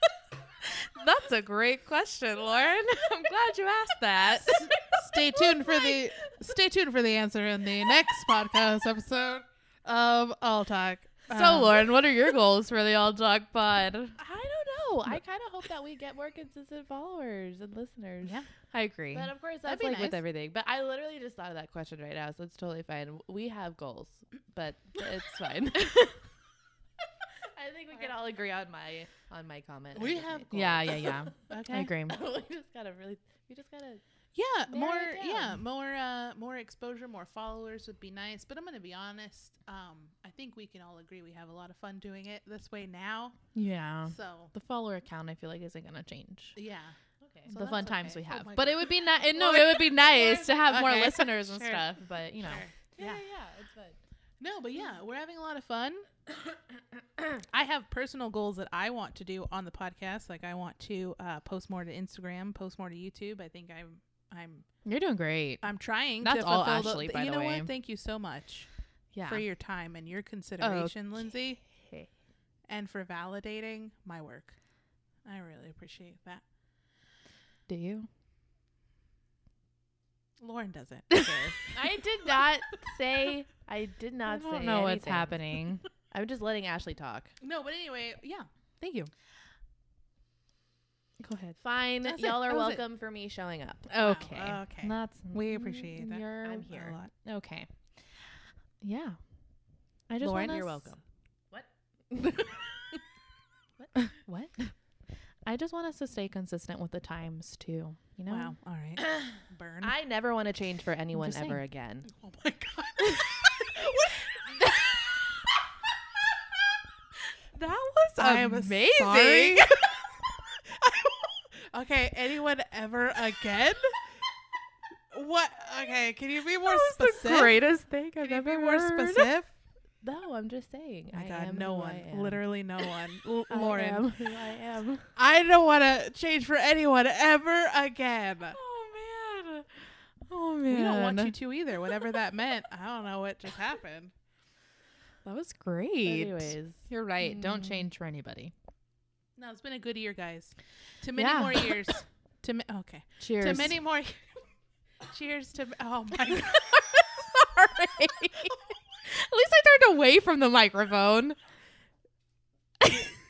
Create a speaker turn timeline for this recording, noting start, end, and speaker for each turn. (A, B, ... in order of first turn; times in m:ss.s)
0:00.6-0:04.7 A
0:04.2-0:04.9 B
0:04.3-0:11.9 C
0:05.4-0:06.3 B
0:11.3-0:14.2 A
0:14.2-0:18.4 B
0:18.2-0:18.5 C
0:18.7-0:19.3 A
0:19.1-0:26.2 B
0:19.6-0:20.2 C
0:27.5-0:31.5 B
0:29.9-0:31.9 C
0:30.5-0:32.2 A
0:32.1-0:34.0 B
0:34.3-0:43.4 C
0:34.7-0:35.6 B
0:43.5-0:46.6 A
0:44.1-0:44.5 C
0:46.6-0:47.0 C
0:47.2-0:47.5 B
0:47.5-0:52.7 A
0:47.5-0:53.2 C
0:52.8-0:54.0 B
0:54.4-0:56.1 C
0:57.4-1:04.7 C
1:04.8-1:05.7 A
1:05.6-1:08.7 C
1:06.2-1:07.7 A
1:09.1-1:09.4 A
1:09.2-1:11.6 C
1:10.6-1:12.1 A
1:12.7-1:14.6 C
1:15.2-1:16.4 C
1:17.7-1:18.1 A
1:20.4-1:22.0 C
1:21.1-1:21.4 A
1:21.7-1:27.3 B
1:24.3-1:25.9 A
1:27.4-1:29.1 C
1:31.2-1:32.8 A
1:31.6-1:33.9 B
1:33.9-1:37.7 A
1:34.0-1:37.1 C
1:36.4-1:37.0 B
1:38.8-1:39.2 A
1:40.1-1:40.9 A
1:40.2-1:42.6 B
1:43.8-1:44.5 B
1:44.0-1:44.7 A
1:45.5-1:48.6 A
1:48.3-1:50.0 C
1:49.0-1:52.1 B
1:51.1-1:51.6 A
1:52.1-1:54.8 C
1:54.6-1:55.1 A
1:57.5-2:00.0 A
1:58.2-2:04.2 C
2:05.1-2:07.6 C
2:06.6-2:09.3 A
2:08.2-2:09.5 C
2:10.0-2:12.4 B
2:11.1-2:14.1 C
2:13.5-2:15.1 B
2:15.2-2:18.6 C
2:18.5-2:21.4 A
2:20.7-2:24.1 C
2:25.2-2:28.5 A
2:26.0-2:27.8 B
2:29.4-2:34.4 C
2:31.2-2:31.9 A
2:33.2-2:33.8 A
2:35.0-2:36.7 C
2:36.3-2:41.4 A